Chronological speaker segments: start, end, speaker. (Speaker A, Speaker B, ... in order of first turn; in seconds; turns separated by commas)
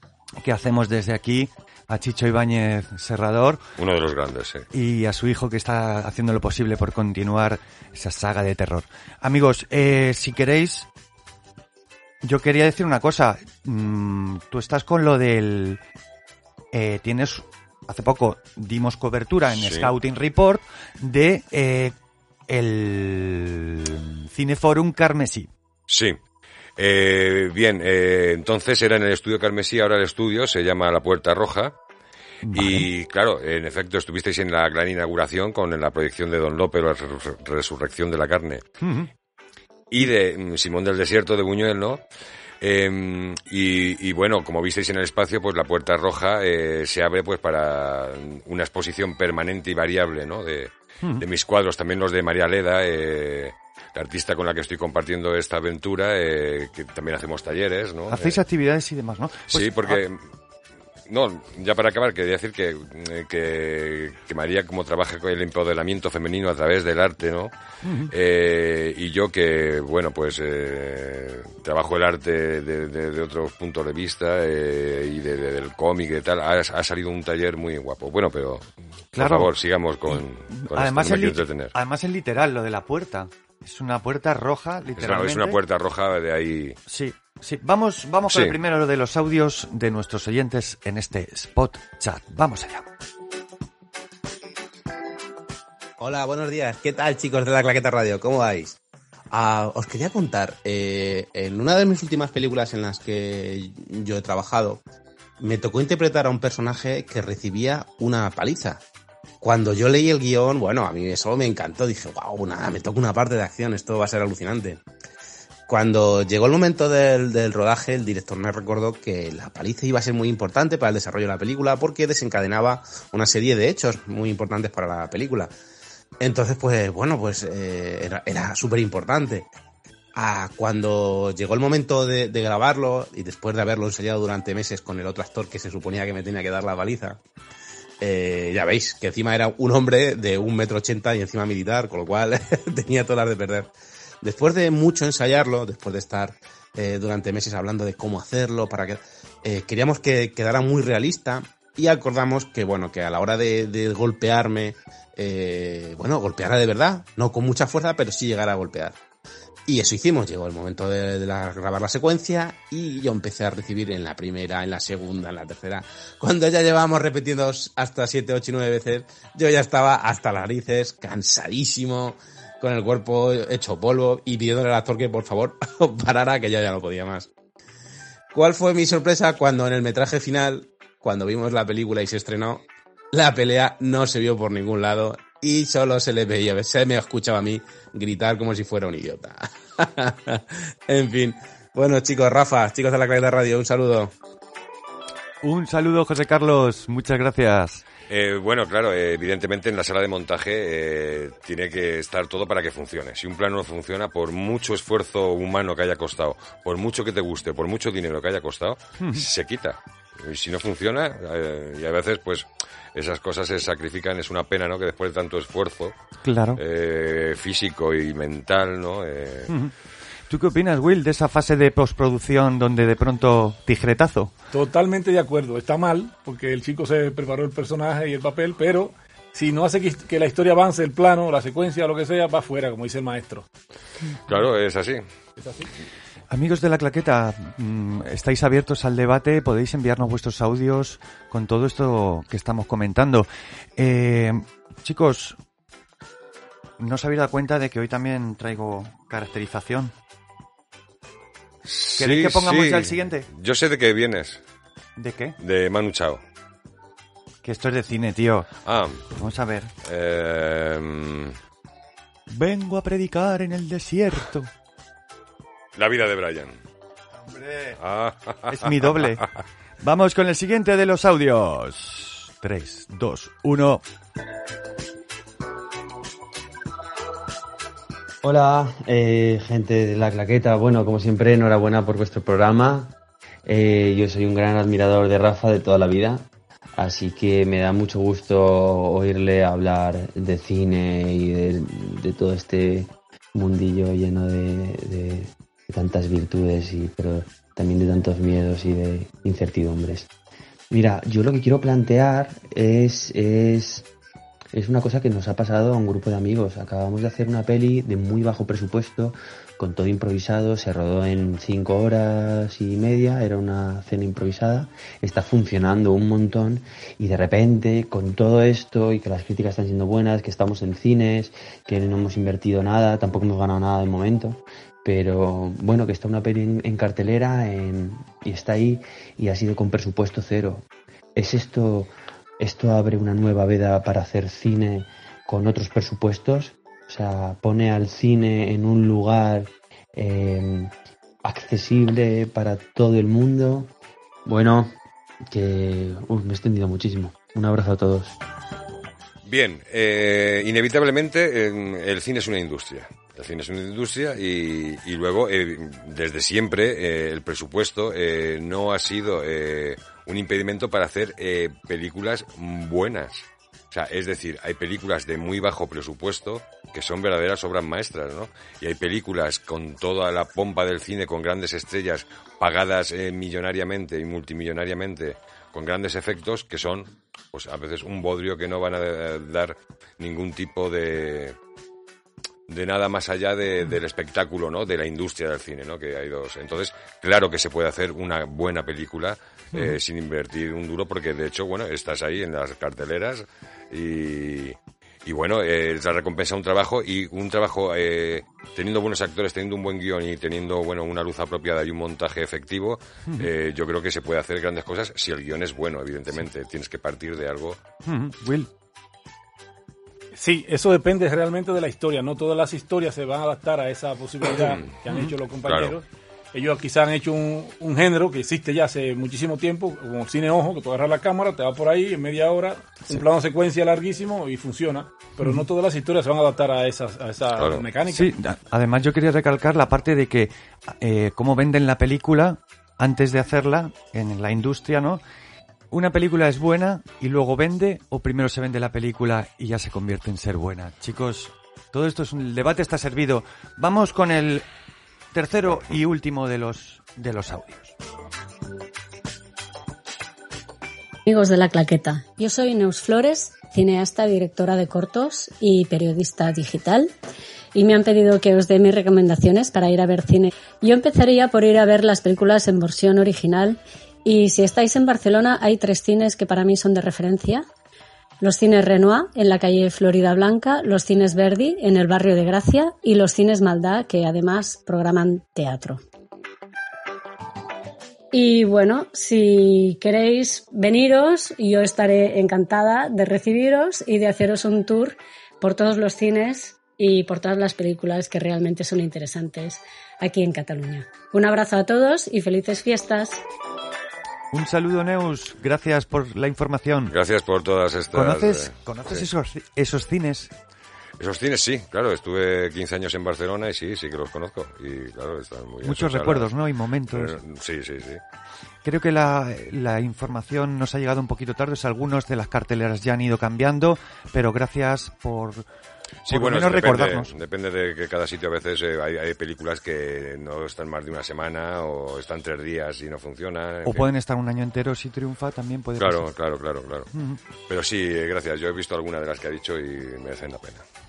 Speaker A: 0.4-3.6, Speaker B: 3.8-4.7, Speaker A: 4.7-10.9, Speaker A: 12.2-15.8, Speaker A: 16.7-21.9, Speaker B: 19.5-19.9, Speaker A: 22.5-25.5, Speaker B: 25.9-26.2, Speaker B: 26.8-31.8, Speaker A: 32.4-32.9, Speaker B: 32.5-38.6, Speaker A: 38.8-39.1, Speaker B: 39.9-42.0, Speaker B: 42.6-58.4, Speaker A: 58.1-60.0, Speaker B: 59.5-60.2, Speaker B: 61.1-67.5, Speaker A: 67.8-68.1, Speaker B: 68.1-81.7, Speaker A: 79.2-79.5, Speaker A: 80.1-85.6, Speaker B: 85.0-86.8, Speaker A: 86.9-92.8, Speaker B: 88.3-88.5, Speaker C: 96.0-98.8, Speaker C: 99.3-104.8, Speaker C: 105.4-108.8, Speaker C: 109.4-114.8, Speaker C: 115.7-125.5, Speaker C: 126.2-129.5, Speaker C: 130.1-137.2, Speaker C: 138.0-143.7, Speaker C: 144.2-159.0, Speaker C: 159.7-177.3, Speaker C: 178.3-194.1, Speaker A: 195.4-197.8, Speaker B: 198.1-215.9, Speaker A: 216.2-216.6, Speaker B: 216.6-219.5, Speaker A: 220.3-224.3, Speaker D: 224.5-233.5, Speaker B: 234.2-235.0, Speaker D: 235.4-235.7, Speaker A: 236.3-245.4, Speaker A: 246.8-249.9, Speaker B: 251.7-254.4, Speaker A: 252.0-253.2, Speaker A: 255.0-255.4, Speaker B: 255.4-256.2, Speaker A: 257.4-258.5, Speaker B: 258.6-259.1, Speaker A: 259.1-259.7, Speaker B: 259.8-261.4, Speaker A: 262.3-264.5, Speaker B: 265.8-266.6, Speaker A: 267.3-267.8, Speaker B: 267.8-269.0, Speaker A: 268.5-269.2, Speaker A: 269.8-273.8, Speaker E: 278.2-282.9, Speaker E: 283.4-300.1, Speaker E: 300.7-303.9, Speaker E: 304.5-330.6, Speaker E: 331.1-340.7, Speaker E: 341.2-343.7, Speaker E: 344.2-344.7, Speaker E: 345.3-348.2, Speaker B: 349.2-381.4, Speaker B: 382.5-407.6, Speaker A: 407.8-408.5, Speaker D: 410.1-428.1, Speaker B: 414.4-414.8, Speaker B: 415.4-415.8, Speaker B: 427.4-427.6, Speaker A: 427.9-435.0, Speaker A: 435.7-444.4, Speaker A: 445.1-447.7, Speaker F: 451.1-456.9, Speaker F: 457.5-467.4, Speaker F: 468.2-475.8, Speaker F: 478.1-493.2, Speaker A: 494.3-496.9, Speaker B: 496.9-499.1, Speaker A: 497.9-500.3, Speaker B: 501.0-506.3, Speaker A: 505.6-507.2, Speaker B: 506.9-508.0, Speaker A: 508.6-515.5, Speaker B: 516.0-523.9, Speaker A: 516.1-517.1, Speaker A: 523.6-526.1, Speaker B: 525.8-526.9, Speaker A: 526.9-527.2, Speaker B: 527.5-530.6